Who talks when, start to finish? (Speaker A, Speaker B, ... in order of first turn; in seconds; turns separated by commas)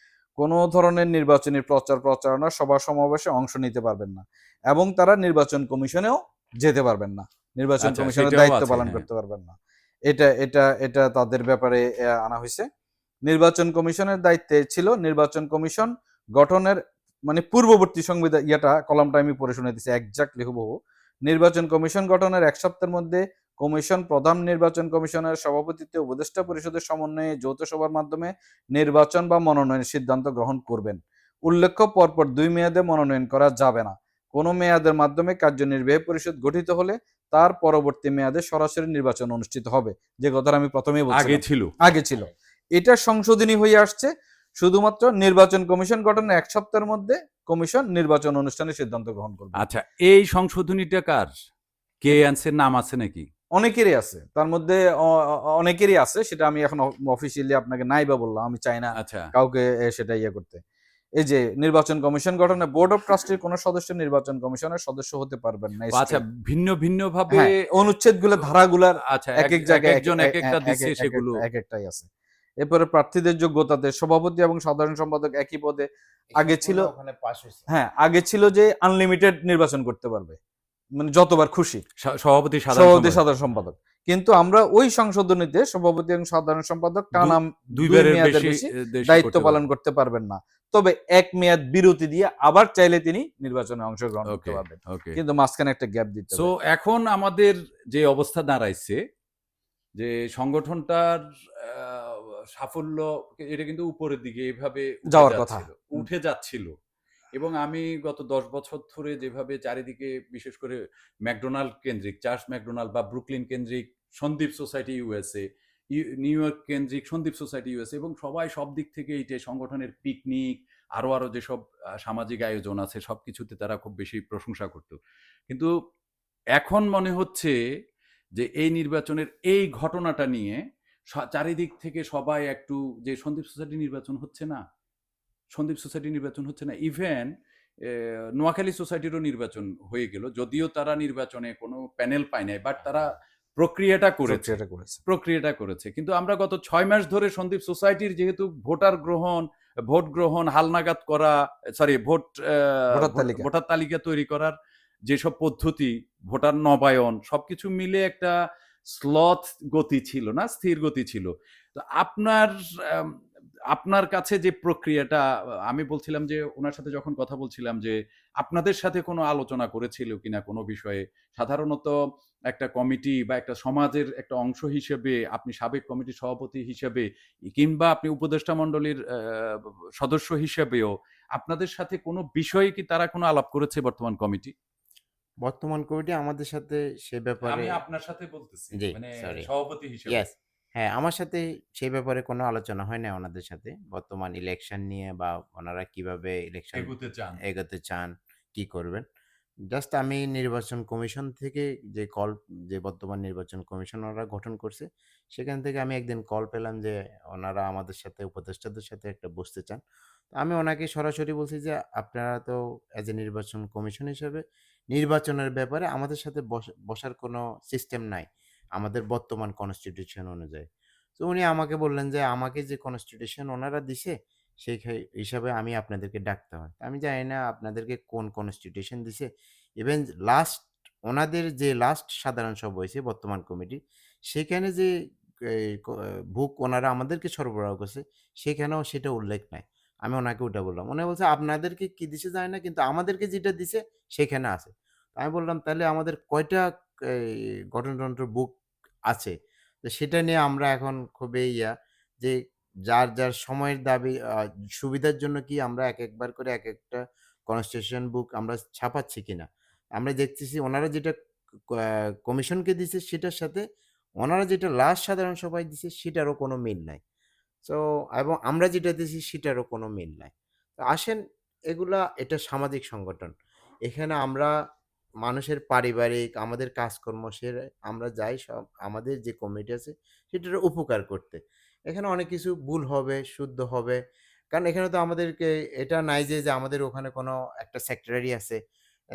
Speaker A: 0.4-9.6, Speaker B: 7.8-9.1, Speaker A: 10.1-12.7, Speaker A: 13.3-49.6, Speaker B: 41.1-41.7, Speaker B: 49.6-51.3, Speaker B: 52.0-53.3, Speaker A: 53.5-60.6, Speaker B: 59.0-59.3, Speaker A: 61.2-66.2, Speaker B: 65.9-67.5, Speaker A: 67.3-72.1, Speaker B: 69.0-71.4, Speaker A: 72.6-76.9, Speaker C: 76.3-77.7, Speaker A: 77.7-80.4, Speaker A: 81.0-81.8, Speaker B: 82.0-83.2, Speaker A: 82.7-96.5, Speaker B: 87.1-89.6, Speaker B: 94.3-95.2, Speaker B: 96.3-99.0, Speaker B: 100.0-106.7, Speaker A: 105.1-106.0, Speaker B: 107.3-115.4, Speaker B: 115.9-125.0, Speaker B: 126.6-127.5, Speaker B: 128.4-130.6, Speaker B: 131.1-134.6, Speaker B: 135.5-137.3, Speaker B: 137.8-144.5, Speaker A: 144.2-145.0, Speaker B: 145.1-154.5, Speaker A: 152.9-153.4, Speaker B: 155.1-158.3, Speaker B: 158.9-163.1, Speaker B: 163.7-171.9, Speaker B: 172.5-184.5, Speaker C: 185.4-187.8, Speaker B: 187.4-190.2, Speaker C: 188.7-189.5, Speaker C: 190.1-196.9, Speaker B: 196.7-197.4, Speaker C: 197.4-199.1, Speaker C: 199.7-209.8, Speaker C: 210.3-220.7, Speaker C: 221.2-229.3, Speaker C: 229.8-234.9, Speaker C: 235.5-248.5, Speaker C: 249.1-252.3, Speaker C: 252.9-261.1, Speaker C: 261.7-263.6, Speaker C: 264.2-267.0, Speaker C: 267.6-271.2, Speaker C: 271.7-273.3, Speaker C: 273.9-274.5, Speaker C: 275.2-284.0, Speaker C: 284.5-288.6